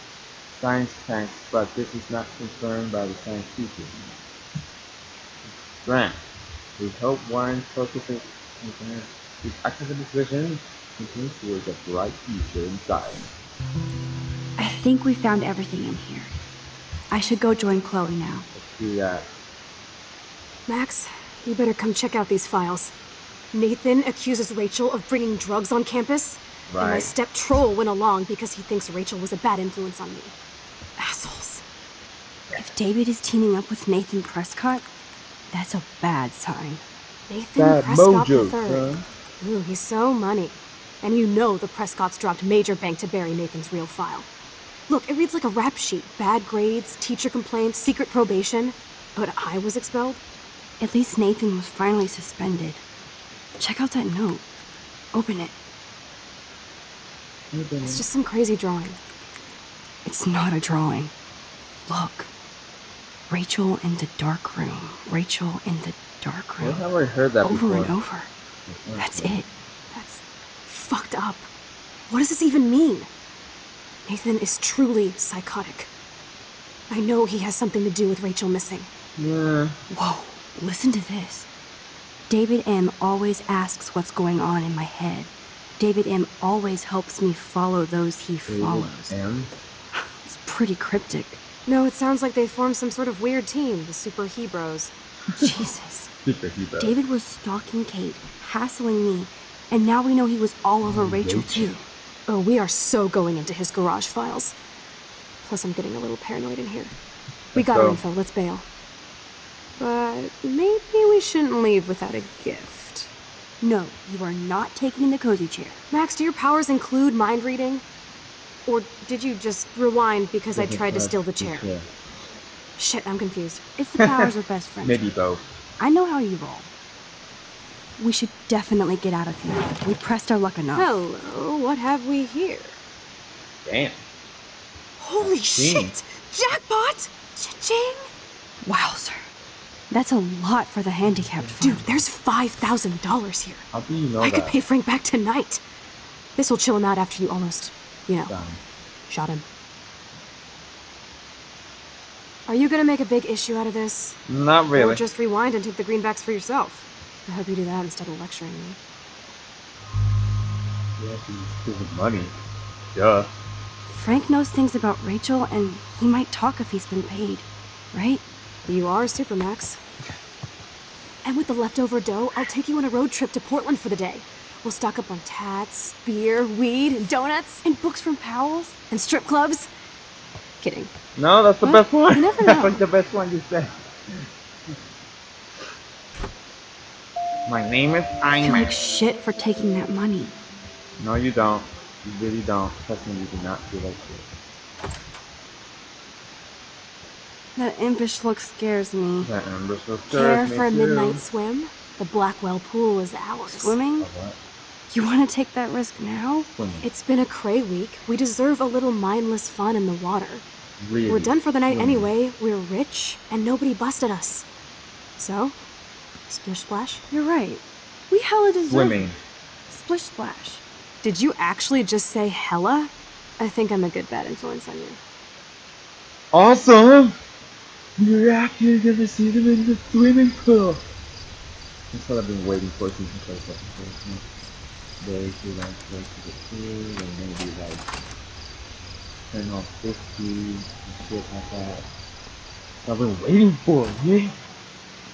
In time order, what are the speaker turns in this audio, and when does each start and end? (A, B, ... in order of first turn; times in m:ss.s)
0:00.5-0:04.1 A
0:05.8-0:06.2 A
0:06.8-0:13.3 A
0:14.6-0:16.3 B
0:17.1-0:18.5 B
0:18.6-0:19.3 A
0:20.7-0:22.9 C
0:23.5-0:30.4 C
0:26.7-0:27.1 A
0:31.0-0:31.6 C
0:32.6-0:34.9 B
0:35.5-0:36.8 B
0:37.3-0:38.9 C
0:37.6-0:39.0 A
0:39.4-0:44.3 C
0:44.9-0:50.2 C
0:50.8-0:52.8 B
0:53.6-0:54.4 B
0:55.1-0:55.5 B
0:57.5-0:58.0 A
0:57.8-0:59.0 C
1:00.0-1:01.1 B
1:01.9-1:02.3 B
1:03.3-1:06.8 B
1:06.6-1:08.0 A
1:07.4-1:08.3 B
1:08.7-1:09.4 A
1:09.0-1:09.5 B
1:09.9-1:11.5 C
1:12.1-1:13.1 C
1:14.1-1:15.9 C
1:16.9-1:18.9 C
1:19.2-1:19.8 A
1:19.9-1:21.5 B
1:22.3-1:29.2 B
1:28.5-1:29.5 A
1:29.9-1:31.4 B
1:31.7-1:34.9 C
1:35.4-1:36.1 B
1:36.2-1:37.0 A
1:36.8-1:41.8 B
1:40.9-1:41.7 A
1:42.3-1:44.5 C
1:45.4-1:46.9 C
1:47.6-1:48.0 A
1:47.6-1:48.6 C
1:49.8-1:53.1 C
1:53.6-1:55.8 B
1:55.9-1:57.8 C
1:58.7-2:01.7 C
2:00.5-2:01.9 A
2:02.8-2:03.6 C
2:03.8-2:05.1 B
2:04.0-2:04.3 A
2:04.8-2:05.4 A
2:05.8-2:06.7 B
2:08.0-2:10.9 B
2:10.8-2:12.8 C
2:13.7-2:14.0 A
2:15.0-2:17.7 B
2:15.2-2:16.0 A
2:16.6-2:18.1 C
2:18.6-2:19.3 B
2:19.9-2:21.8 B
2:21.6-2:23.6 C
2:23.7-2:24.6 A
2:24.2-2:25.6 C
2:26.4-2:28.3 C
2:28.3-2:28.6 A
2:29.1-2:29.4 C
2:32.5-2:34.2 C
2:34.3-2:35.0 A
2:34.8-2:38.8 C
2:41.0-2:42.3 A
2:43.0-2:43.3 A
2:43.9-2:48.2 B
2:48.7-2:49.8 C
2:51.2-2:57.6 C
2:57.6-2:58.8 B
2:58.9-2:59.7 C
3:00.6-3:00.9 C
3:01.2-3:04.2 A
3:02.2-3:02.7 B
3:02.2-3:02.7 C
3:07.5-3:08.8 A
3:08.4-3:10.3 B
3:11.0-3:14.3 A
3:17.6-3:19.3 B
3:19.2-3:21.2 A
3:20.1-3:23.8 C
3:23.5-3:24.1 B
3:24.0-3:24.4 A
3:24.9-3:26.5 B
3:26.6-3:26.9 A
3:26.8-3:30.4 C
3:30.8-3:32.1 A
3:31.1-3:34.4 C
3:35.2-3:35.6 C
3:36.3-3:37.0 C
3:37.1-3:39.1 B
3:38.6-3:39.2 A
3:39.7-3:40.6 B
3:41.0-3:45.0 C
3:46.3-3:47.2 A
3:48.0-3:50.8 A
3:51.9-3:54.2 A
3:55.0-3:57.8 A
3:59.3-4:01.9 A
4:02.8-4:04.4 A